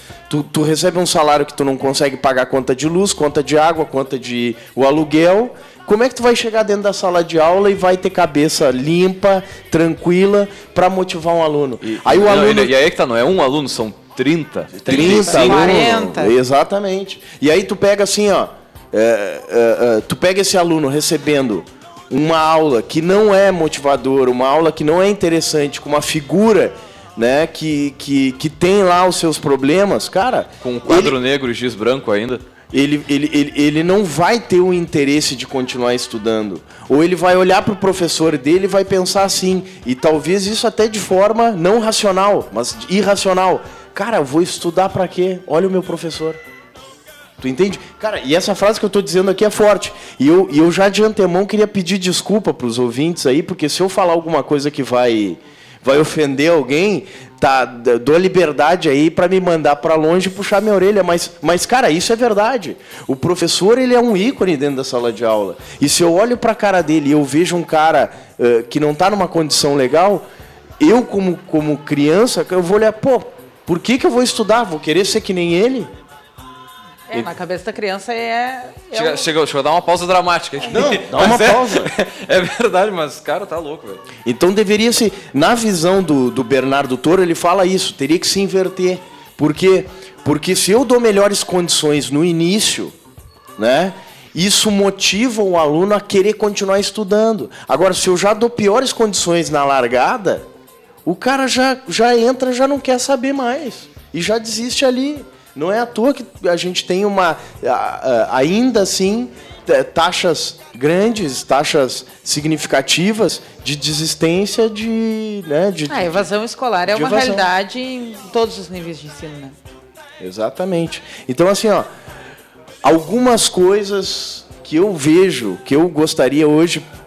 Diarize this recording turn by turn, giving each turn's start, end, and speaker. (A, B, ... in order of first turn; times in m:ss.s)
0:00.3-0:12.7 A
0:11.8-0:15.8 B
0:14.8-0:31.1 A
0:14.9-0:16.3 C
0:30.6-0:32.4 B
0:32.7-0:46.4 A
0:47.4-1:10.2 A
1:10.8-1:15.9 A
1:17.1-1:19.3 C
1:18.9-1:24.0 B
1:20.7-1:21.9 A
1:24.2-1:32.9 A
1:33.6-1:40.4 A
1:41.0-1:56.3 A
1:55.9-1:59.6 C
1:56.9-1:57.5 A
2:00.2-2:01.9 A
2:02.8-2:06.8 A